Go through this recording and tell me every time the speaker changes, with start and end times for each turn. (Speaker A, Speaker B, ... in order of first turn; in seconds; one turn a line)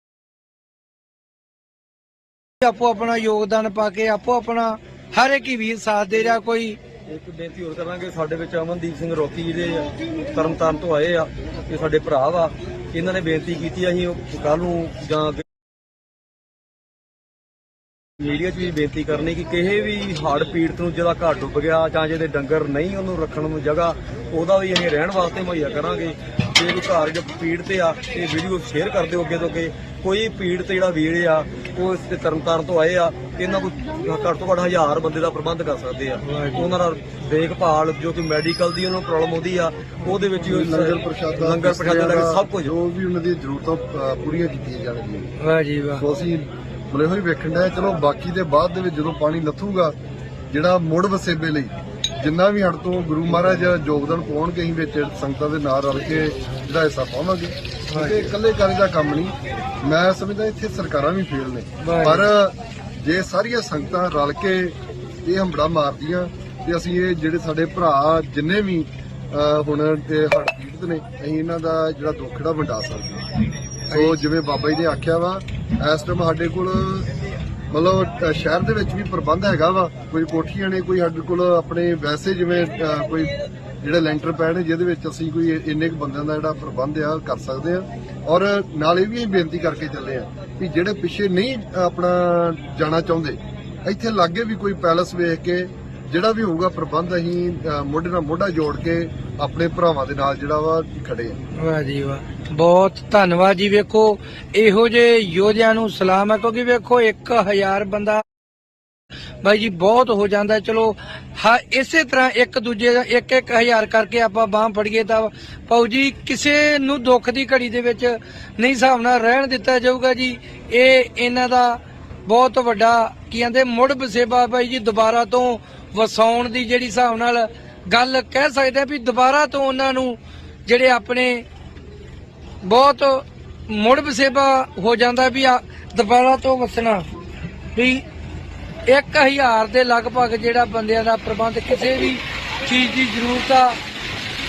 Speaker A: 2.6-6.8
Speaker B: 7.1-15.4
Speaker B: 18.2-42.7
Speaker A: 36.2-36.7
Speaker C: 40.4-45.3
Speaker A: 45.4-46.0
Speaker C: 46.0-49.9
Speaker C: 50.5-73.3
Speaker A: 57.9-58.3
Speaker A: 61.8-62.2
Speaker A: 73.9-74.2
Speaker C: 73.9-77.1
Speaker C: 77.7-101.4
Speaker A: 101.6-108.2
Speaker A: 109.4-131.4
Speaker A: 132.6-137.1
Speaker A: 137.7-138.0
Speaker A: 138.9-143.8